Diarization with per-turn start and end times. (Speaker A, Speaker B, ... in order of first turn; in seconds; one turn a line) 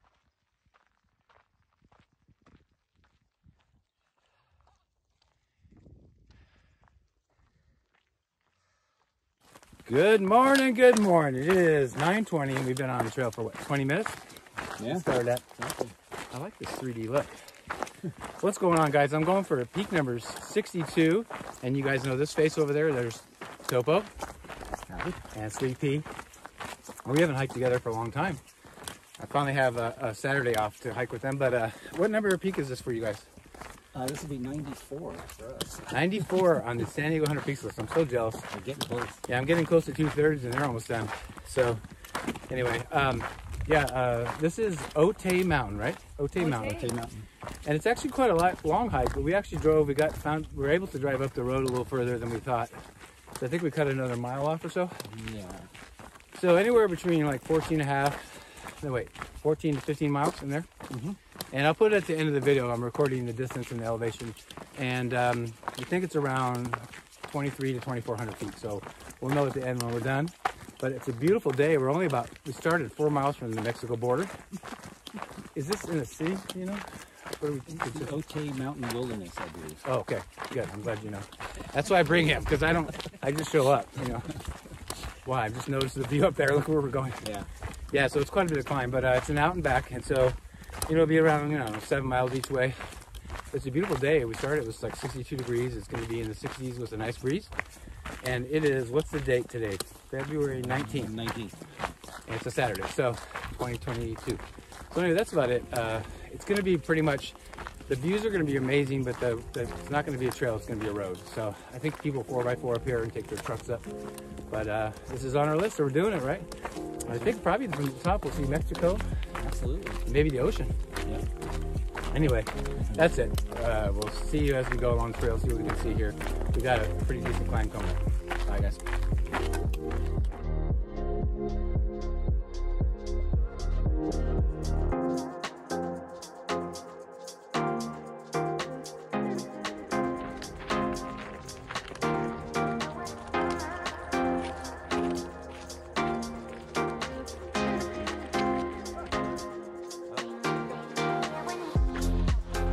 Speaker A: 9.8-14.2
Speaker B: 14.8-15.9
Speaker A: 14.9-15.5
Speaker A: 16.3-17.5
Speaker A: 18.4-24.1
Speaker B: 24.7-25.2
Speaker A: 25.3-26.1
Speaker A: 27.0-28.4
Speaker A: 29.2-33.3
Speaker B: 33.9-35.9
Speaker A: 35.9-38.5
Speaker B: 38.5-39.2
Speaker A: 39.2-41.8
Speaker A: 42.5-46.9
Speaker B: 46.5-47.2
Speaker A: 47.6-55.0
Speaker B: 55.0-55.7
Speaker A: 56.3-60.9
Speaker A: 61.5-74.3
Speaker A: 75.5-78.1
Speaker B: 77.7-79.8
Speaker A: 79.8-84.4
Speaker A: 85.2-87.3
Speaker B: 87.2-87.5
Speaker A: 87.9-97.5
Speaker A: 98.2-101.2
Speaker B: 100.6-101.7
Speaker A: 102.3-113.9
Speaker A: 114.5-116.5
Speaker A: 117.0-119.1
Speaker B: 119.4-120.0
Speaker A: 120.0-120.7
Speaker A: 122.1-128.8